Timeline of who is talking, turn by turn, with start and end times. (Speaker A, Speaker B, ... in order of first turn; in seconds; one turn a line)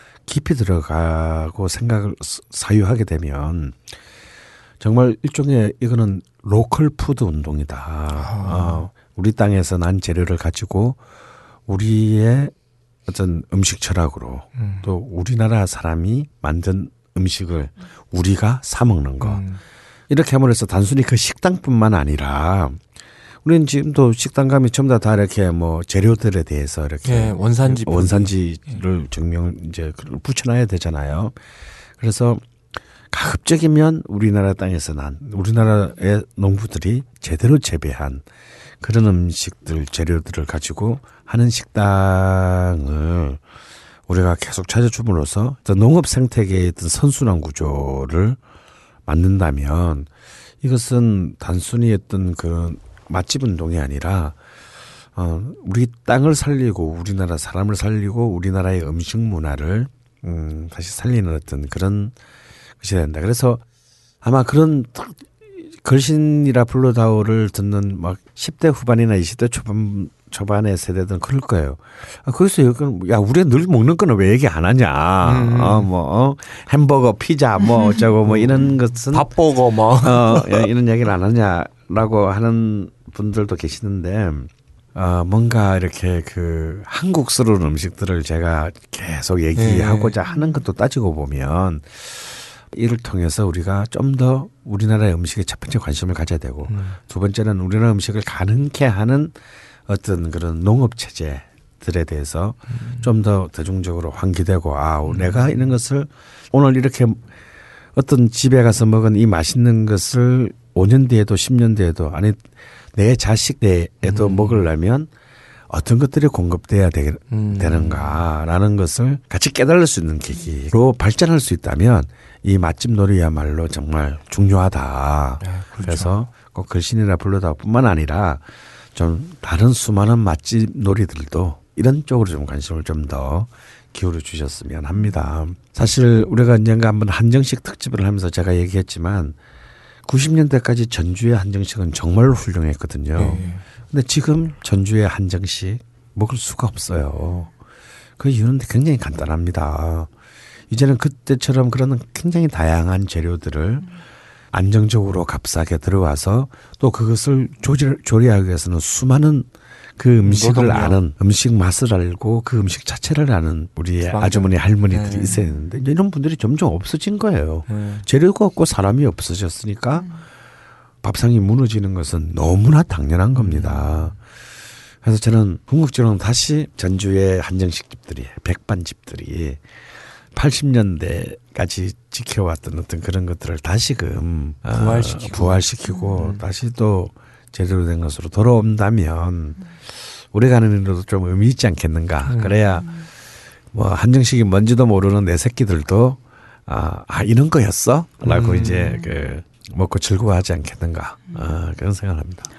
Speaker A: 0.3-3.8
Speaker A: 4.8-11.0
Speaker B: 8.2-8.9
Speaker A: 11.7-12.5
Speaker A: 13.1-19.4
Speaker B: 14.6-14.9
Speaker B: 19.2-19.6
Speaker A: 20.1-22.8
Speaker A: 23.4-31.4
Speaker B: 27.1-28.8
Speaker A: 32.0-32.4
Speaker A: 33.1-38.2
Speaker A: 38.8-43.4
Speaker A: 44.1-48.4
Speaker A: 49.1-50.1
Speaker A: 50.6-54.4
Speaker A: 55.2-62.1
Speaker A: 62.8-63.6
Speaker A: 64.2-79.3
Speaker B: 75.2-75.9
Speaker B: 78.2-80.7
Speaker A: 80.0-99.3
Speaker B: 89.6-90.2
Speaker B: 96.7-97.0
Speaker A: 99.9-107.2
Speaker B: 102.8-103.1
Speaker B: 105.1-105.6
Speaker A: 108.0-115.1
Speaker B: 114.0-114.6
Speaker A: 115.7-139.4
Speaker B: 117.3-118.2
Speaker B: 125.4-126.2
Speaker A: 140.1-147.5
Speaker B: 143.2-143.6
Speaker A: 148.2-150.1
Speaker A: 150.7-153.9
Speaker A: 154.5-170.1
Speaker B: 160.2-161.0
Speaker B: 164.1-165.4
Speaker B: 167.7-168.1
Speaker A: 171.0-174.2
Speaker B: 173.3-174.1
Speaker A: 175.0-179.6
Speaker A: 180.3-189.6
Speaker B: 184.7-186.4
Speaker A: 190.3-192.9
Speaker B: 192.2-192.5
Speaker A: 193.7-202.5
Speaker B: 198.2-198.9